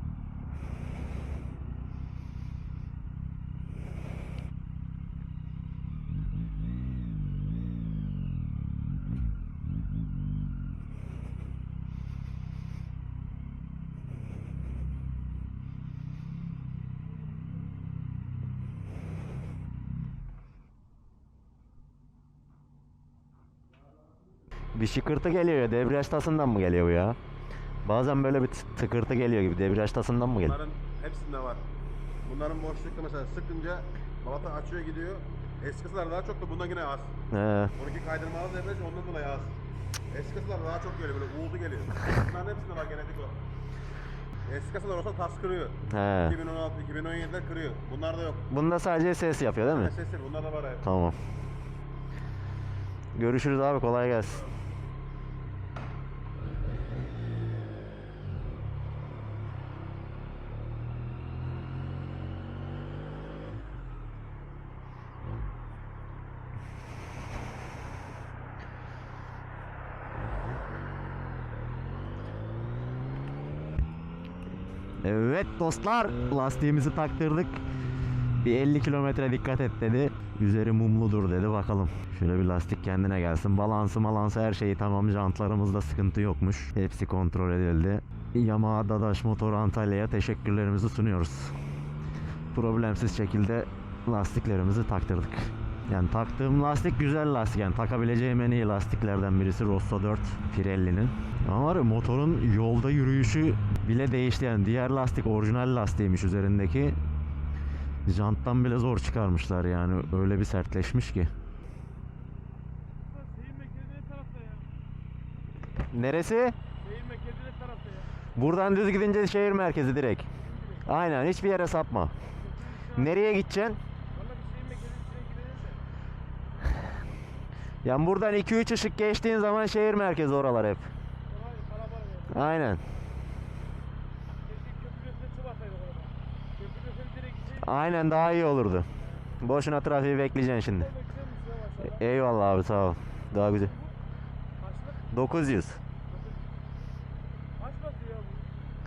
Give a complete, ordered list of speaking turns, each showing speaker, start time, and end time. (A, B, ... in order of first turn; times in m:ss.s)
0:24.8-0:27.2 A
0:27.8-0:30.6 A
0:30.4-0:31.6 B
0:32.2-0:37.2 B
0:37.3-0:37.7 A
0:37.8-0:39.6 B
0:40.1-0:43.4 B
0:44.5-0:48.5 B
0:45.9-0:46.4 A
0:48.5-0:49.9 A
0:49.7-0:50.8 B
0:50.8-0:51.2 A
0:53.2-0:54.5 A
1:15.0-1:17.6 A
1:18.4-1:31.6 A
1:32.5-1:47.0 A
1:48.1-1:51.3 A
1:53.2-1:54.6 C
1:55.9-1:56.6 A
1:56.8-1:58.1 C
1:58.4-2:00.3 A
2:00.8-2:02.1 A
2:02.8-2:03.8 A
2:04.2-2:05.8 C
2:07.8-2:10.9 A
2:11.4-2:12.3 C
2:12.3-2:12.8 A
2:14.5-2:17.4 C
2:17.4-2:18.9 A
2:19.4-2:21.0 A
2:21.1-2:21.7 C
2:21.7-2:23.8 A
2:25.0-2:25.8 A
2:27.6-2:28.4 C